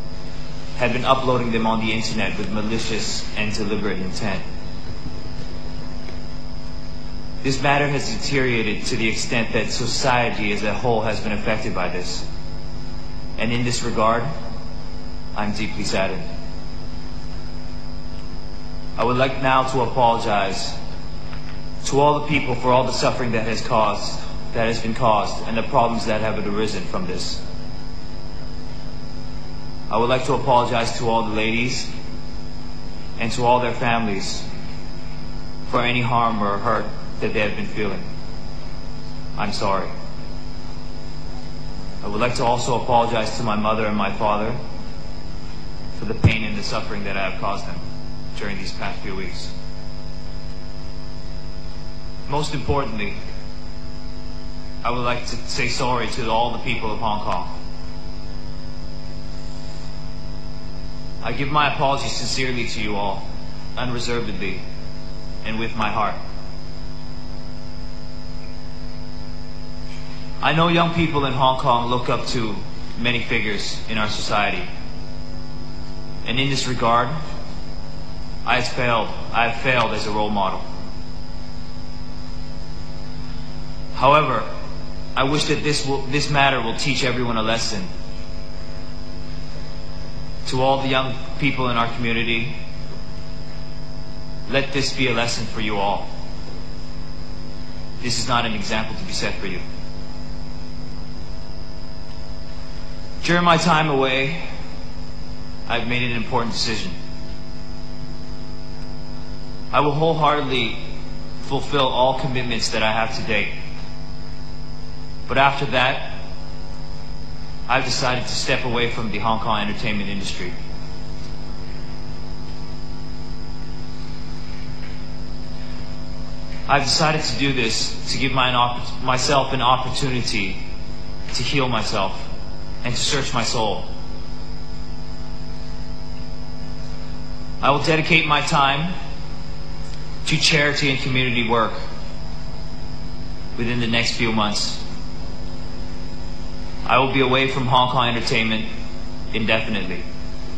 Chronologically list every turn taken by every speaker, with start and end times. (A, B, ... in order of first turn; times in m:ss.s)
0:00.8-0:04.4 A
0:07.4-0:12.2 A
0:13.4-0:14.3 A
0:15.3-0:16.3 A
0:19.0-0:20.8 A
0:21.8-0:27.4 A
0:29.9-0:31.9 A
0:33.2-0:34.5 A
0:35.7-0:38.0 A
0:39.3-0:39.9 A
0:42.0-0:44.6 A
0:46.0-0:47.8 A
0:48.3-0:49.5 A
0:52.3-0:53.2 A
0:54.8-0:57.6 A
1:01.2-1:04.6 A
1:05.4-1:06.2 A
1:10.4-1:14.7 A
1:16.2-1:17.2 A
1:18.4-1:20.6 A
1:23.9-1:24.5 A
1:25.1-1:27.9 A
1:30.4-1:32.6 A
1:34.5-1:36.1 A
1:38.0-1:39.6 A
1:43.2-1:44.5 A
1:45.7-1:46.9 A
1:49.7-1:53.6 A
1:55.3-1:56.2 A
1:57.7-2:00.5 A
2:06.7-2:10.6 A
2:11.3-2:12.3 A
2:12.8-2:13.9 A
2:17.6-2:18.9 A
2:20.2-2:21.8 A
2:23.6-2:24.8 A
2:26.8-2:28.7 A
2:29.3-2:30.0 A